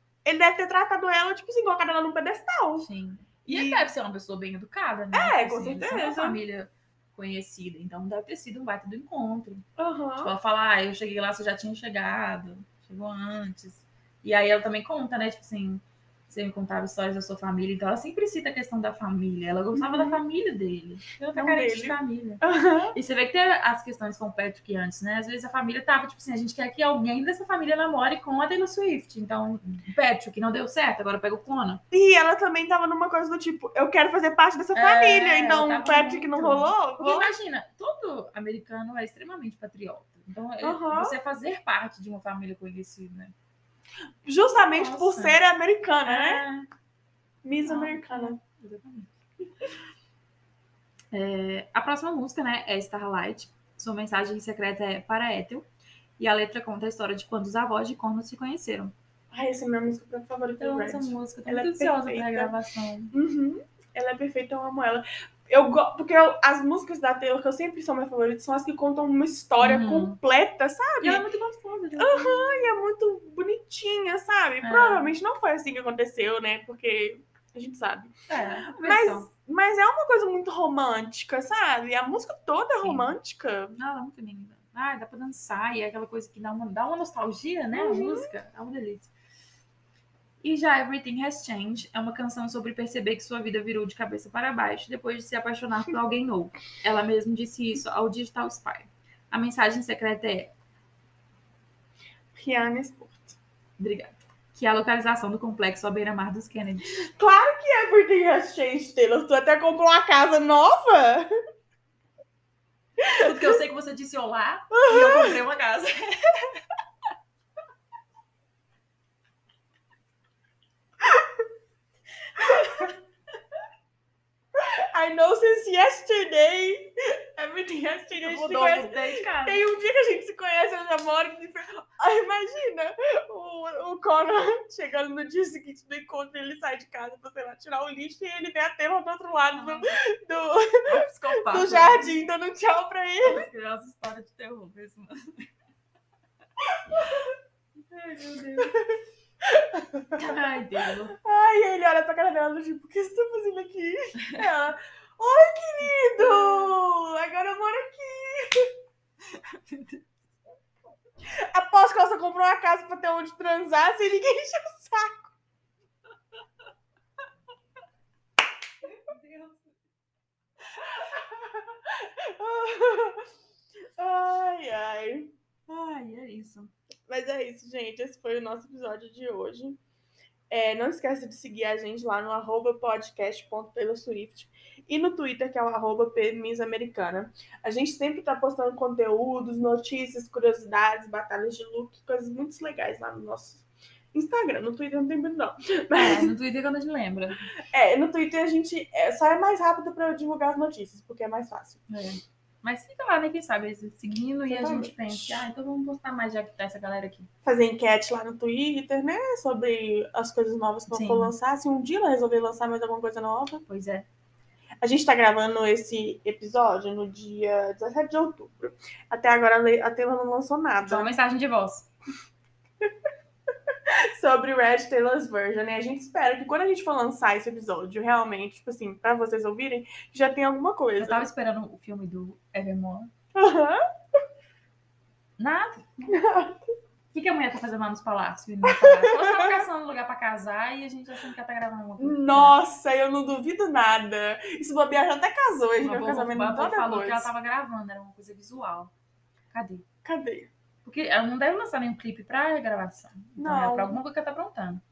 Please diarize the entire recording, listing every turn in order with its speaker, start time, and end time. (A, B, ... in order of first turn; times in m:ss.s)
0:00.2-0:02.9 A
0:02.8-0:09.6 B
0:03.5-0:03.9 A
0:05.1-0:06.4 A
0:09.8-0:10.3 A
0:10.2-0:22.4 B
0:19.7-0:20.2 A
0:21.3-0:22.9 A
0:22.9-0:31.8 B
0:31.9-0:37.3 A
0:34.7-0:43.3 B
0:40.6-0:41.1 A
0:44.2-0:46.4 A
0:44.6-0:45.4 B
0:46.0-0:46.7 B
0:47.4-0:48.4 A
0:47.6-0:49.1 B
0:51.1-0:55.6 B
0:56.2-0:58.9 B
0:59.3-1:02.5 A
1:00.6-1:03.1 B
1:03.1-1:11.2 A
1:09.6-1:10.2 B
1:11.0-1:12.7 B
1:12.0-1:18.1 A
1:14.6-1:15.1 B
1:18.3-1:19.3 B
1:18.7-1:23.8 A
1:22.8-1:23.1 B
1:23.8-1:29.1 B
1:27.7-1:28.3 A
1:30.4-1:40.5 B
1:42.3-1:43.4 A
1:43.8-1:46.9 B
1:47.0-1:51.3 A
1:53.0-1:53.5 A
1:53.1-1:56.6 B
1:54.7-1:55.4 A
2:02.4-2:02.9 A
2:02.5-2:02.9 B
2:04.5-2:23.5 A
2:08.2-2:09.6 B
2:19.5-2:20.0 B
2:20.8-2:22.1 B
2:23.2-2:25.5 B
2:26.9-2:27.3 A
2:27.9-2:28.7 B
2:28.6-2:30.2 A
2:30.1-2:31.1 B
2:31.1-2:38.7 A
2:36.2-2:36.7 B
2:39.3-2:40.1 B
2:41.4-2:45.3 A
2:49.1-2:49.6 B
2:51.0-2:53.3 A
2:54.0-2:55.3 A
2:55.7-2:56.7 B
2:57.1-2:59.8 A
3:00.5-3:16.3 A
3:15.9-3:17.5 B
3:17.7-3:21.8 A
3:21.9-3:27.3 B
3:24.5-3:25.4 A
3:27.4-3:33.6 A
3:30.9-3:31.3 B
3:33.7-3:34.1 B
3:34.8-3:41.2 A
3:40.8-3:41.9 B
3:43.9-3:51.2 A
3:51.0-3:53.1 B
3:53.3-3:53.8 A
3:55.4-3:56.2 B
3:56.1-3:56.6 A
3:57.1-4:02.6 B
3:58.7-3:59.5 A
4:02.0-4:07.3 A
4:05.8-4:08.9 B
4:09.5-4:09.8 B
4:10.0-4:10.5 A
4:10.8-4:14.8 B
4:13.4-4:14.0 A